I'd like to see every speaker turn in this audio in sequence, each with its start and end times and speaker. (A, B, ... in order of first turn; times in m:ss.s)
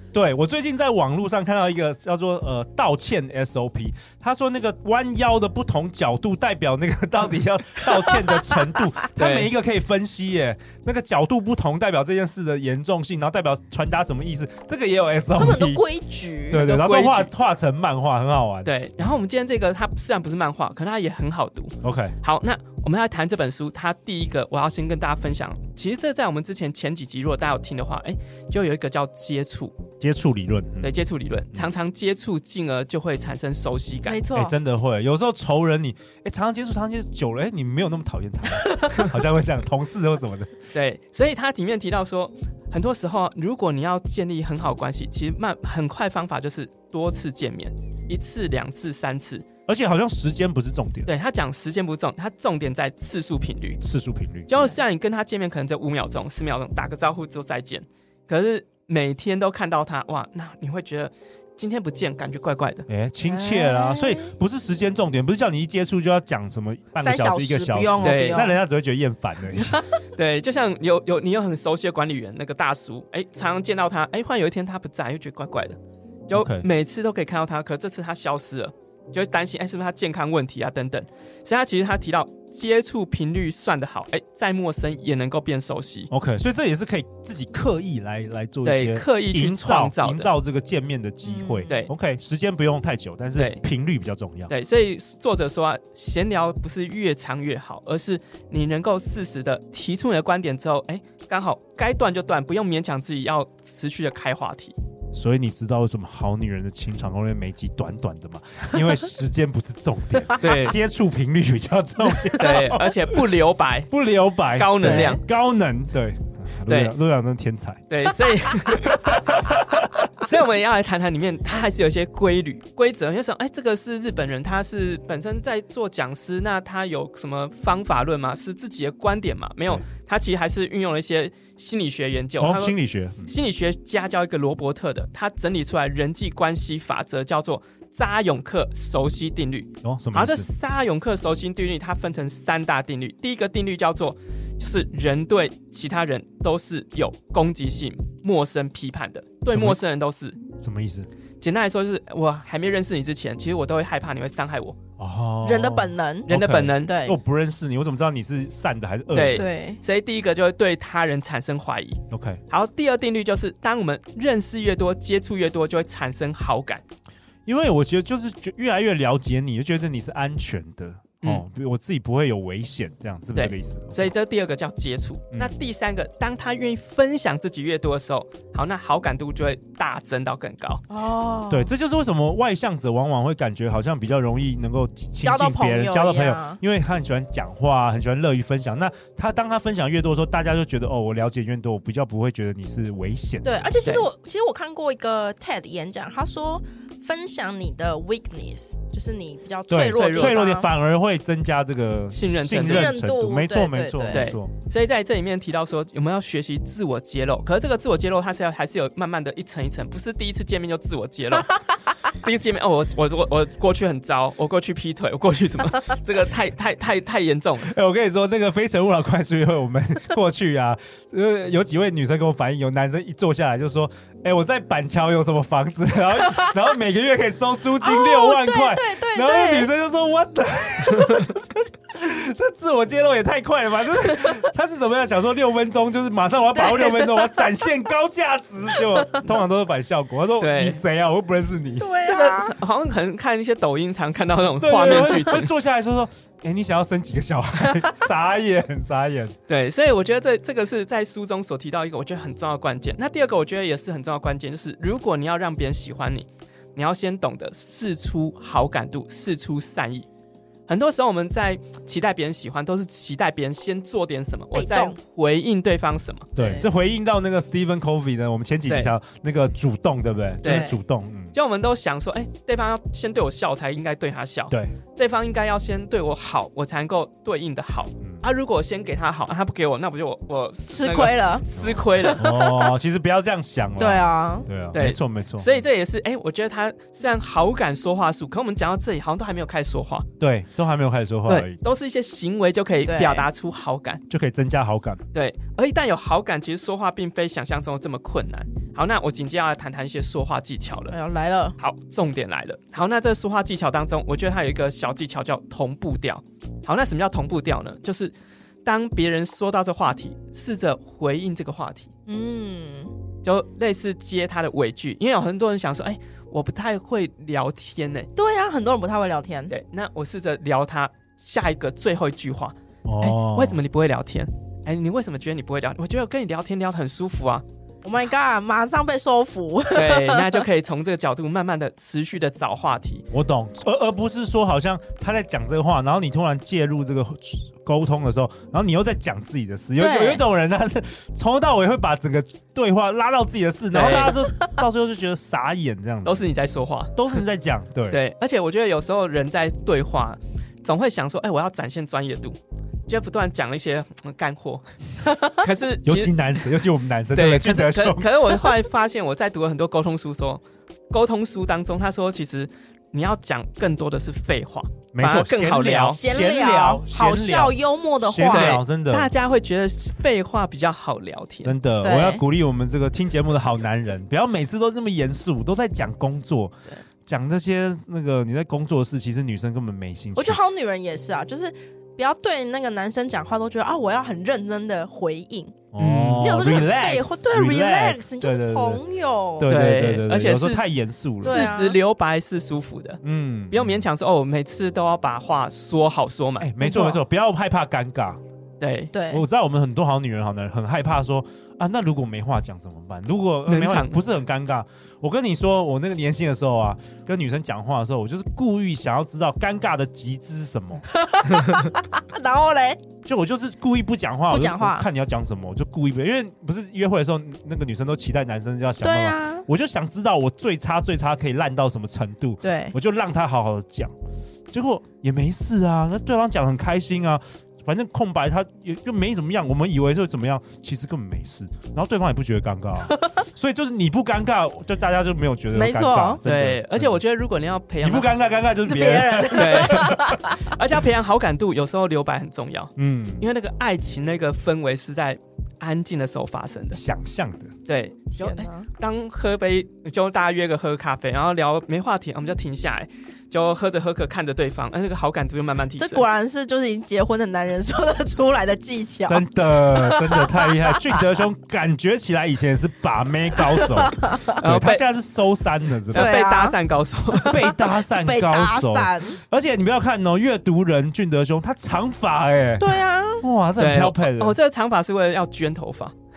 0:00.1-0:15.8 A
0:09.2-0:09.5 B
0:15.4-0:16.6 C
0:16.5-0:19.1 A
0:16.5-0:17.3 B
0:18.6-0:29.8 B
0:21.8-0:22.2 A
0:30.0-0:31.0 A
0:30.8-0:34.2 B
0:34.1-0:34.6 C
0:34.3-0:40.6 A
0:38.6-0:39.0 C
0:40.7-0:49.5 B
0:49.7-0:51.1 A
0:51.1-0:53.8 B
0:53.8-0:54.6 A
0:54.5-1:02.9 B
1:02.9-1:09.8 A
1:03.2-1:04.3 C
1:07.0-1:08.6 C
1:08.0-1:08.5 B
1:09.6-1:10.0 C
1:10.2-1:26.1 B
1:16.3-1:16.7 A
1:26.1-1:34.5 A
1:28.6-1:30.3 B
1:31.2-1:31.8 C
1:33.4-1:33.6 B
1:34.5-1:44.8 B
1:45.1-1:53.2 A
1:50.4-1:50.8 B
1:52.4-1:54.0 B
1:53.9-1:57.8 A
1:54.5-1:55.2 B
1:54.8-1:55.2 C
1:56.7-1:56.9 B
1:57.9-1:59.6 B
1:58.9-2:00.0 A
2:00.1-2:12.8 B
2:12.4-2:13.3 A
2:13.3-2:30.4 B
2:19.8-2:20.5 A
2:29.5-2:29.8 A
2:30.6-2:31.1 A
2:31.4-2:34.8 B
2:35.0-2:39.4 A
2:35.4-2:37.2 C
2:36.3-2:37.0 B
2:39.1-2:46.8 B
2:39.3-2:39.8 C
2:42.1-2:42.4 A
2:47.5-2:54.1 A
2:53.4-3:00.8 B
3:00.9-3:01.7 C
3:01.5-3:13.8 A
3:05.2-3:06.6 C
3:13.4-3:20.7 C
3:19.7-3:24.5 A
3:19.9-3:20.4 B
3:22.1-3:22.9 B
3:22.5-3:24.3 C
3:24.1-3:37.7 B
3:37.6-4:02.0 A
3:47.8-3:49.7 C
3:56.6-3:57.4 C
3:59.0-3:59.2 C
4:00.4-4:00.8 B
4:01.8-4:02.6 C
4:02.0-4:05.5 B
4:04.6-4:09.4 A
4:09.5-4:20.1 B
4:20.7-4:26.3 B
4:24.5-4:25.0 C
4:26.4-4:31.3 A
4:26.4-4:26.6 C
4:28.7-4:28.9 B
4:30.4-4:30.8 B
4:30.4-4:30.8 C
4:31.3-4:42.3 B
4:34.5-4:34.8 A
4:40.7-4:41.4 C
4:41.6-4:45.5 A
4:42.0-4:42.7 C
4:43.8-4:44.5 C
4:44.7-4:50.1 B
4:50.2-4:51.6 A
4:51.3-4:54.0 B
4:52.8-4:53.3 C
4:54.1-4:55.0 A
4:55.1-5:01.0 B
5:00.9-5:01.6 C
5:01.6-5:08.1 B
5:08.6-5:11.9 B
5:12.1-5:12.9 C
5:13.2-5:18.1 B
5:18.2-5:19.5 C
5:19.5-5:27.4 B
5:22.8-5:23.6 A
5:27.8-5:30.4 C
5:29.7-5:33.1 B
5:33.1-5:46.3 A
5:39.8-5:40.2 C
5:43.7-5:44.2 B
5:46.0-5:47.2 B
5:47.0-5:48.0 A
5:47.9-5:54.6 B
5:55.0-5:55.4 C
5:55.2-5:56.5 B
5:55.8-5:58.3 A
5:57.1-6:06.0 B
6:04.9-6:09.1 A
6:05.9-6:08.6 C
6:08.3-6:11.6 B
6:11.4-6:16.6 A
6:11.8-6:12.2 C
6:17.1-6:20.4 A
6:20.1-6:25.6 C
6:25.7-6:28.8 A
6:25.8-6:26.4 B
6:26.2-6:29.5 C
6:29.4-6:31.5 A
6:29.5-6:36.5 B
6:31.2-6:31.8 C
6:33.0-6:33.8 A
6:36.4-6:38.2 A
6:36.6-6:37.0 C
6:38.6-6:38.9 B
6:38.9-6:39.2 C
6:39.1-6:50.8 A
6:43.5-6:44.0 B
6:50.9-6:52.8 C
6:53.0-7:03.9 A
6:54.3-6:54.9 C
6:58.8-6:59.5 C
7:02.4-7:02.8 C
7:04.5-7:17.0 A
7:12.9-7:13.2 C
7:15.5-7:16.2 C
7:16.2-7:18.2 B
7:17.8-7:20.2 A
7:18.6-7:20.5 C
7:19.3-7:26.8 B
7:22.8-7:23.3 A
7:26.7-7:27.5 A
7:27.7-7:36.0 B
7:28.2-7:28.7 C
7:35.8-7:41.1 C
7:39.0-7:46.2 A
7:43.5-7:44.4 C
7:44.4-7:44.9 B
7:45.9-7:47.4 B
7:45.9-7:46.6 C
7:47.1-7:49.2 C
7:47.2-7:54.4 A
7:52.6-7:53.2 C
7:53.6-7:55.9 B